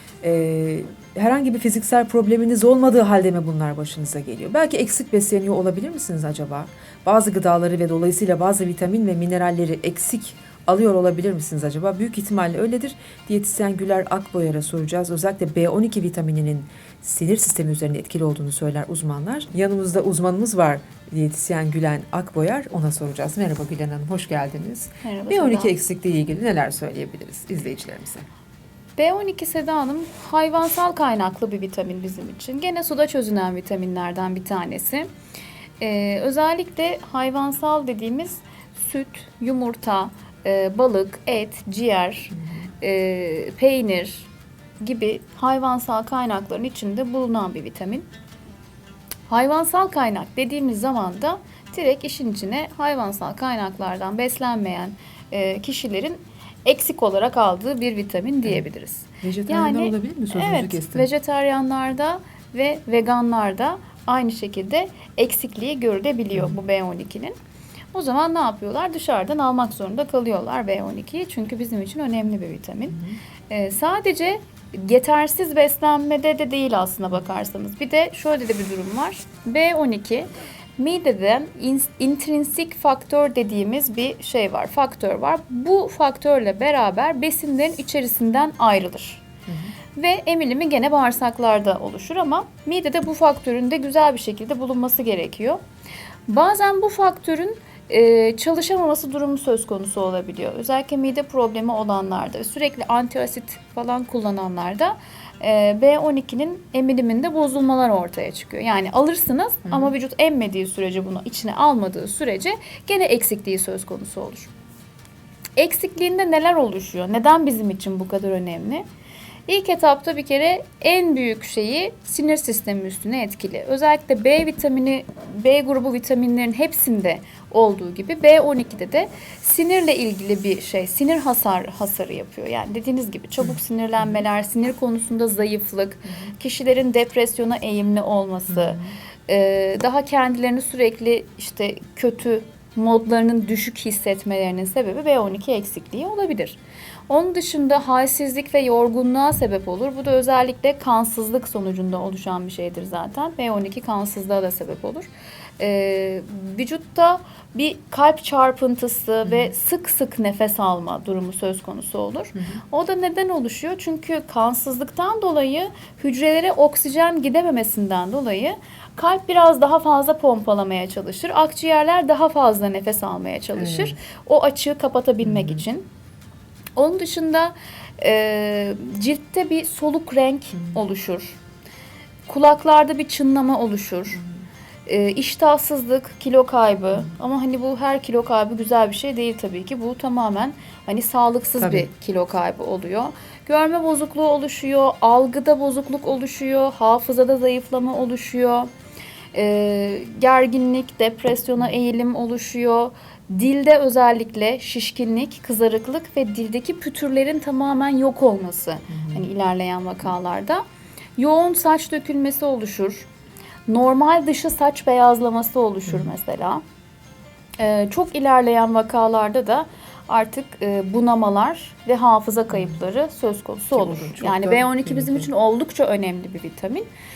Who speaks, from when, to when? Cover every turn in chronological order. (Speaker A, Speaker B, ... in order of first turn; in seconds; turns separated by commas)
Speaker A: 0.2-28.3, Speaker B: 25.0-25.7, Speaker B: 29.0-35.1, Speaker B: 35.8-44.3, Speaker A: 42.3-42.7, Speaker B: 44.8-48.0, Speaker B: 49.3-67.3, Speaker A: 59.2-61.1, Speaker B: 67.9-89.2, Speaker A: 89.5-89.7, Speaker B: 90.0-95.6, Speaker B: 96.3-114.5, Speaker A: 109.6-109.9, Speaker B: 115.5-118.8, Speaker B: 119.5-175.9, Speaker A: 133.4-134.2, Speaker A: 138.5-138.9, Speaker A: 159.2-159.5, Speaker A: 162.3-162.6, Speaker A: 173.6-173.9, Speaker A: 175.2-175.6, Speaker B: 176.8-181.4, Speaker B: 182.3-184.2, Speaker B: 184.9-198.7, Speaker A: 191.6-191.9, Speaker B: 199.3-210.6, Speaker A: 208.9-209.2, Speaker B: 211.2-213.1, Speaker B: 213.7-216.6, Speaker A: 215.9-216.1, Speaker B: 217.6-226.9, Speaker A: 222.5-222.8, Speaker A: 223.7-225.3